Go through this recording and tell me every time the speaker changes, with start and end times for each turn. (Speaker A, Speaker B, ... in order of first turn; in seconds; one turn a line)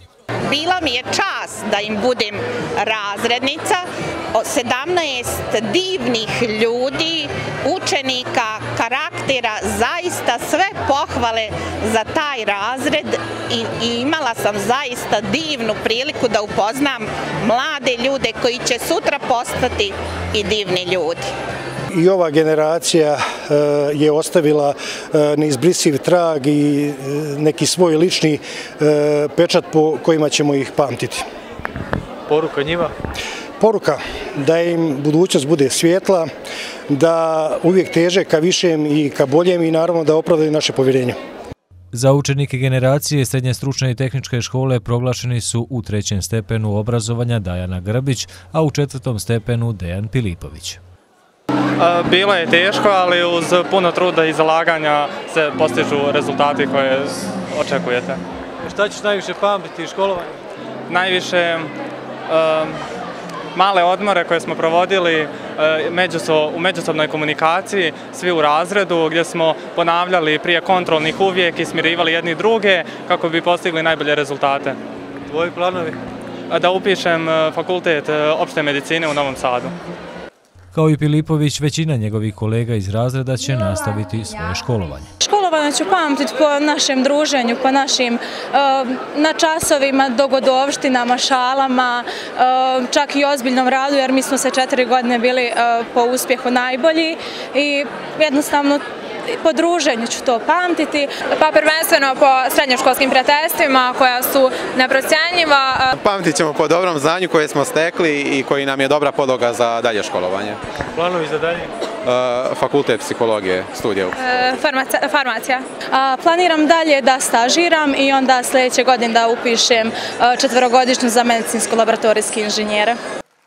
Speaker A: 0.5-21.3
Speaker B: 21.9-31.2
Speaker C: 32.3-32.9
Speaker B: 33.6-36.3
Speaker B: 36.9-41.2
Speaker D: 41.9-50.8
Speaker E: 51.8-58.2
Speaker C: 58.6-60.3
Speaker E: 60.9-61.7
Speaker E: 62.3-62.8
Speaker E: 63.5-74.8
Speaker C: 75.3-76.0
Speaker E: 76.5-79.7
Speaker D: 80.7-85.1
Speaker F: 85.2-98.8
Speaker F: 99.4-101.2
Speaker G: 101.3-105.9
Speaker H: 105.9-110.6
Speaker C: 111.0-111.7
Speaker H: 112.0-114.2
Speaker G: 114.2-115.6
Speaker F: 115.9-123.0